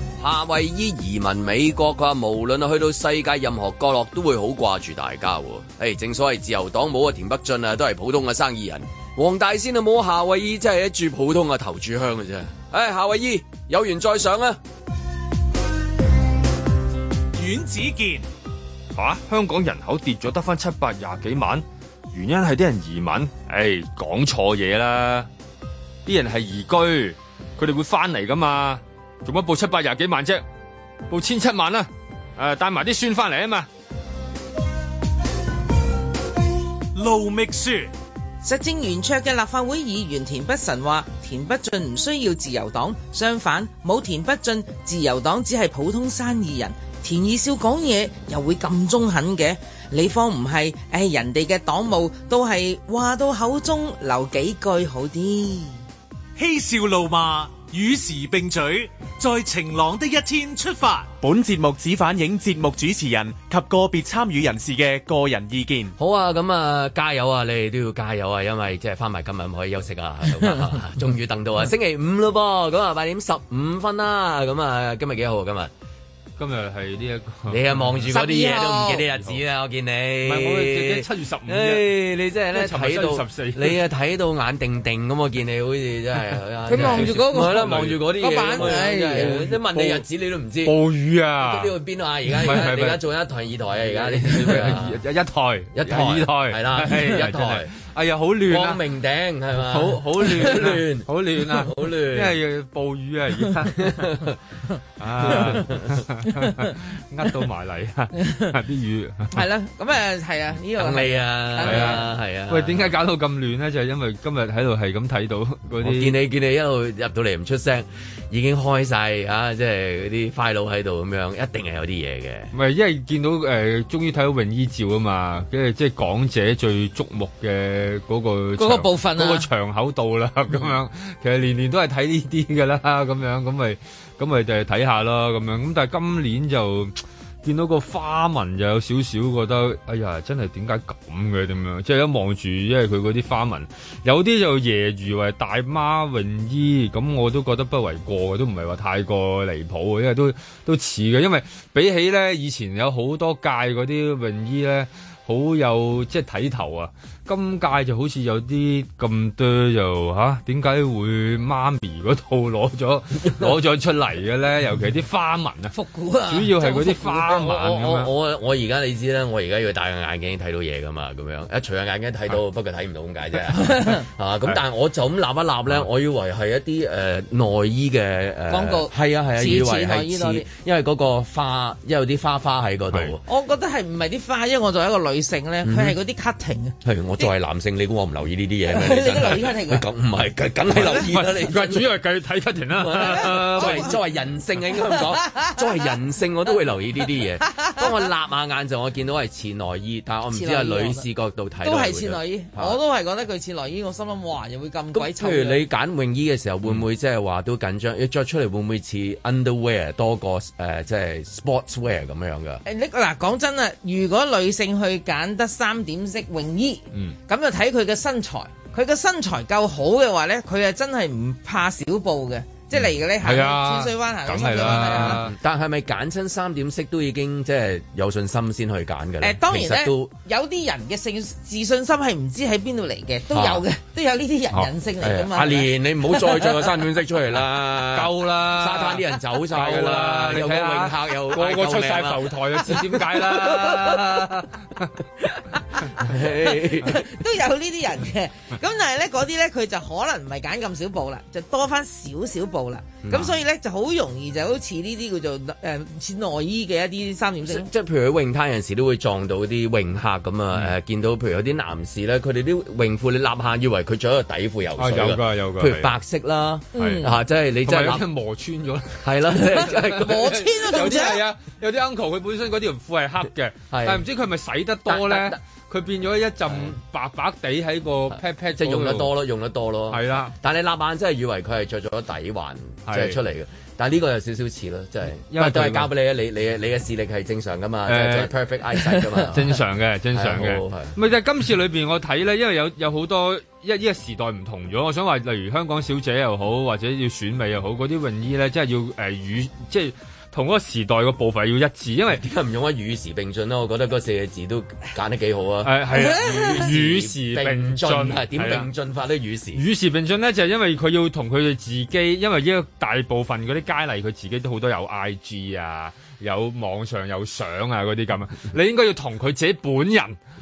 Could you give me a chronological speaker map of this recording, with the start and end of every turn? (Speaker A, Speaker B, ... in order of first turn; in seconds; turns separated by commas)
Speaker A: 0.2-14.6, Speaker B: 17.3-18.2, Speaker C: 18.9-25.3, Speaker C: 26.1-30.4, Speaker C: 31.1-33.7, Speaker B: 36.9-37.9, Speaker D: 38.4-55.8, Speaker B: 56.4-61.1, Speaker E: 61.2-65.9, Speaker A: 66.0-75.7, Speaker C: 76.4-78.1, Speaker A: 77.5-90.8, Speaker D: 78.1-79.0, Speaker C: 80.2-81.9, Speaker C: 82.5-83.8, Speaker D: 86.7-89.4, Speaker C: 86.7-90.0, Speaker C: 90.6-91.7, Speaker A: 91.4-95.0, Speaker C: 92.4-93.0, Speaker C: 93.9-98.8, Speaker A: 95.7-97.7, Speaker A: 98.5-102.3, Speaker C: 99.5-104.1, Speaker A: 103.7-104.4, Speaker C: 105.0-109.4, Speaker A: 105.2-106.0, Speaker D: 109.3-112.0, Speaker A: 110.8-112.9, Speaker C: 111.6-116.1, Speaker A: 115.8-122.5, Speaker C: 122.5-165.7, Speaker D: 128.6-129.4, Speaker D: 165.7-167.0, Speaker C: 166.3-168.1, Speaker A: 167.0-183.2, Speaker D: 173.6-174.0, Speaker D: 178.5-180.4, Speaker D: 183.2-187.3, Speaker A: 185.6-185.9, Speaker A: 186.8-191.9, Speaker D: 188.7-189.8, Speaker C: 190.8-193.9, Speaker A: 192.8-202.8, Speaker D: 200.3-201.1, Speaker D: 201.6-205.6, Speaker A: 204.9-212.6, Speaker D: 212.6-225.2, Speaker C: 223.2-225.3, Speaker A: 224.6-230.1, Speaker D: 229.2-235.7, Speaker A: 233.3-233.6, Speaker A: 235.0-244.2, Speaker C: 237.9-244.9, Speaker A: 246.0-247.0, Speaker D: 246.5-257.7, Speaker A: 253.0-253.4, Speaker A: 257.5-268.0, Speaker C: 264.8-265.9, Speaker D: 266.7-267.1, Speaker C: 266.8-267.1, Speaker C: 267.6-279.1, Speaker A: 269.0-270.8, Speaker D: 269.9-271.2, Speaker A: 273.7-274.0, Speaker A: 274.9-275.4, Speaker A: 276.5-276.7, Speaker A: 278.6-289.6, Speaker C: 279.9-280.3, Speaker C: 282.9-283.2, Speaker C: 285.2-285.9, Speaker C: 287.9-288.3, Speaker C: 289.3-302.2, Speaker A: 290.1-290.9, Speaker A: 302.1-309.6, Speaker C: 305.6-308.7, Speaker C: 309.5-320.1